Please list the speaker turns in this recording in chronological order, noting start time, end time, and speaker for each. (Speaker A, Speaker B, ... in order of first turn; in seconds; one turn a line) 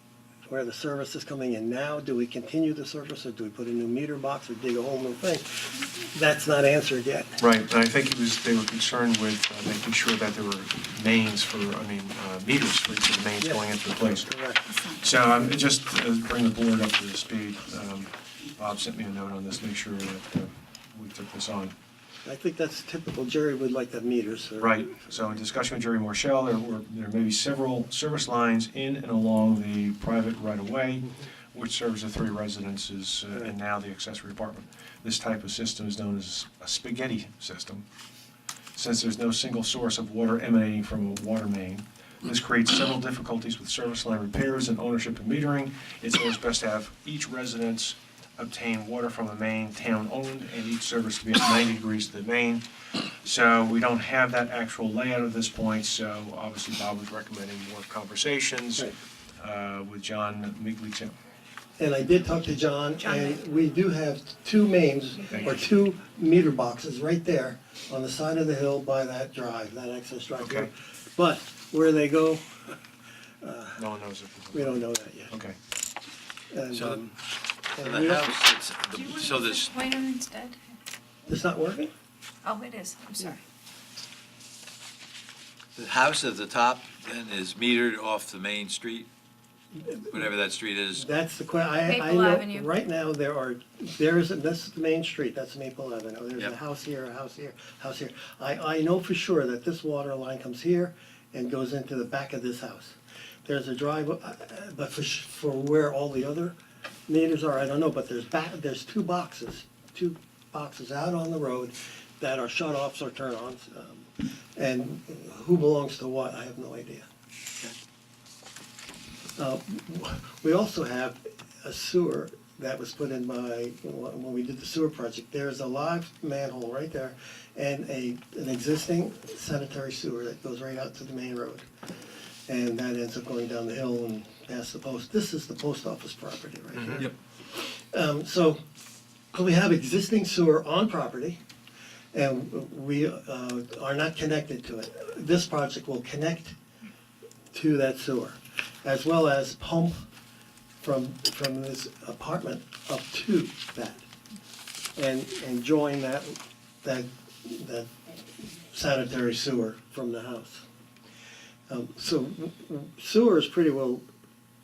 Speaker A: 0.5-7.4
Speaker B: 7.4-14.3
Speaker A: 13.4-14.7
Speaker C: 14.7-15.1
Speaker B: 14.9-21.7
Speaker A: 22.2-24.9
Speaker B: 24.6-37.9
Speaker B: 38.8-52.6
Speaker B: 53.2-61.1
Speaker A: 61.8-72.8
Speaker C: 63.0-63.4
Speaker B: 65.3-65.6
Speaker B: 70.4-70.7
Speaker A: 73.4-73.8
Speaker B: 73.8-75.6
Speaker A: 74.5-75.3
Speaker A: 76.5-77.1
Speaker D: 76.7-77.1
Speaker A: 77.7-78.3
Speaker D: 77.8-79.7
Speaker C: 78.9-80.6
Speaker A: 81.3-81.9
Speaker C: 82.4-83.4
Speaker D: 85.8-89.1
Speaker A: 89.8-90.3
Speaker D: 90.1-91.0
Speaker A: 90.9-106.5
Speaker C: 91.9-92.7
Speaker A: 107.1-117.1
Speaker A: 119.4-131.7
Speaker A: 132.5-138.6
Speaker B: 136.8-137.1
Speaker A: 139.3-141.4
Speaker A: 142.1-146.6
Speaker A: 147.5-150.1
Speaker A: 150.8-154.1
Speaker A: 155.0-158.2
Speaker A: 158.7-160.7
Speaker A: 161.7-164.1